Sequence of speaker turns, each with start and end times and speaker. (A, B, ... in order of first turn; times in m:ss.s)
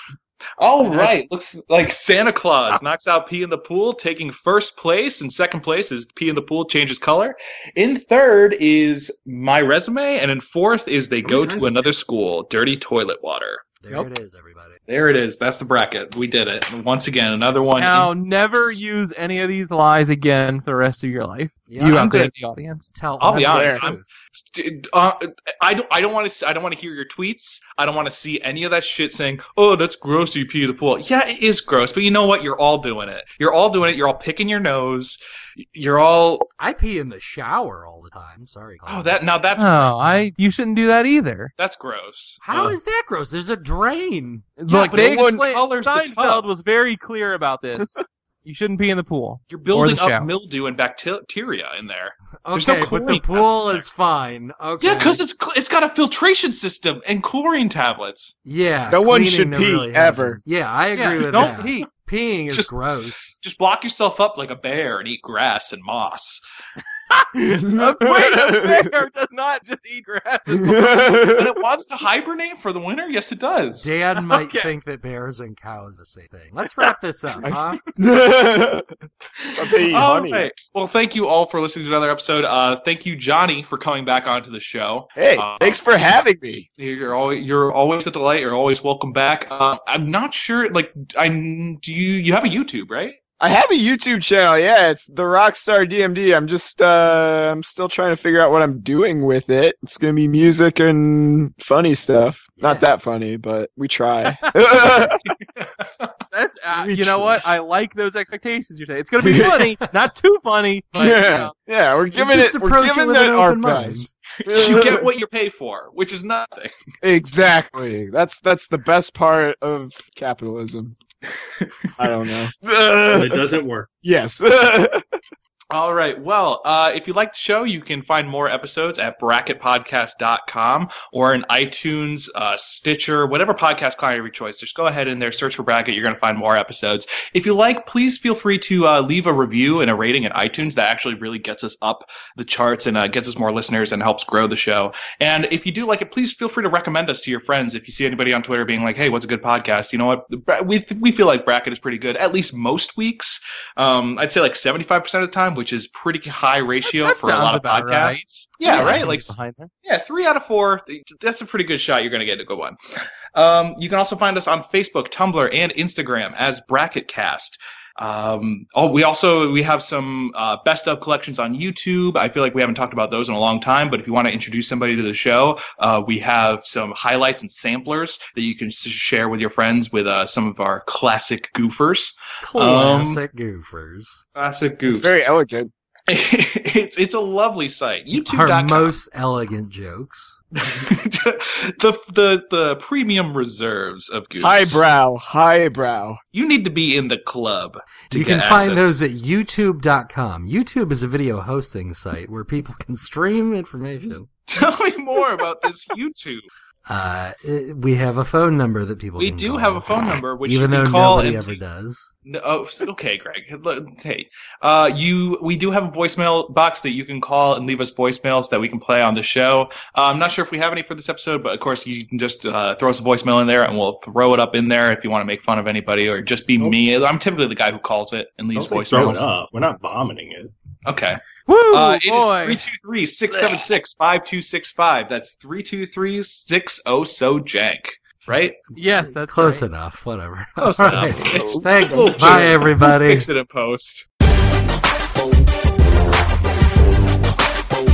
0:00.6-0:13.8 A
0:00.8-0:01.1 B
0:11.2-0:11.9 C
0:13.8-0:14.8 B
0:14.9-0:18.8 A
0:17.7-0:23.4 D
0:21.7-0:22.3 B
0:21.9-0:22.2 A
0:22.9-0:24.0 B
0:23.2-0:36.5 A
0:23.4-0:23.8 E
0:36.6-0:39.2 B
0:38.8-0:40.2 A
0:39.6-0:41.5 D
0:41.6-0:42.7 A
0:42.4-0:44.5 B
0:44.6-0:47.9 D
0:44.7-0:46.5 A
0:44.9-0:45.4 E
0:48.4-0:50.3 D
0:49.5-0:53.8 A
0:52.4-0:55.2 B
0:54.8-0:58.4 A
0:58.4-1:03.3 B
0:58.9-1:00.4 E
1:00.9-1:01.9 D
1:01.2-1:01.7 A
1:02.5-1:02.8 A
1:03.4-1:06.4 A
1:07.1-1:11.3 D
1:07.5-1:08.8 E
1:10.5-1:11.5 E
1:11.2-1:13.9 A
1:13.8-1:17.8 B
1:14.2-1:14.7 D
1:17.4-1:18.9 E
1:19.4-1:25.8 A
1:19.6-1:20.5 E
1:25.2-1:26.7 E
1:26.8-1:33.2 A
1:33.4-1:45.2 E
1:42.6-1:42.9 B
1:44.4-1:44.6 D
1:44.9-1:46.1 A
1:46.3-1:51.5 D
1:46.7-1:47.4 E
1:49.2-1:49.7 E
1:50.9-1:55.1 E
1:52.1-1:54.1 B
1:54.4-1:56.7 A
1:57.0-2:01.0 E
2:01.4-2:01.9 A
2:02.0-2:03.5 E
2:03.1-2:03.9 C
2:04.0-2:05.0 E
2:05.7-2:42.8 A
2:36.8-2:39.7 D
2:38.7-2:39.1 B
2:43.3-3:03.2 A
3:02.4-3:04.2 B
3:04.3-3:05.2 A
3:04.9-3:05.7 E
3:06.1-3:09.0 A
3:08.1-3:10.4 B
3:10.6-3:14.8 A
3:14.4-3:16.2 E
3:16.3-3:18.9 A
3:18.1-3:24.3 B
3:24.4-3:26.5 A
3:26.9-3:32.1 B
3:29.2-3:31.6 A
3:32.2-3:49.2 A
3:48.6-3:50.5 C
3:50.8-3:58.6 A
3:51.5-3:52.6 D
3:58.8-3:59.6 D
3:59.0-4:03.3 B
4:00.6-4:04.0 A
4:01.4-4:02.6 E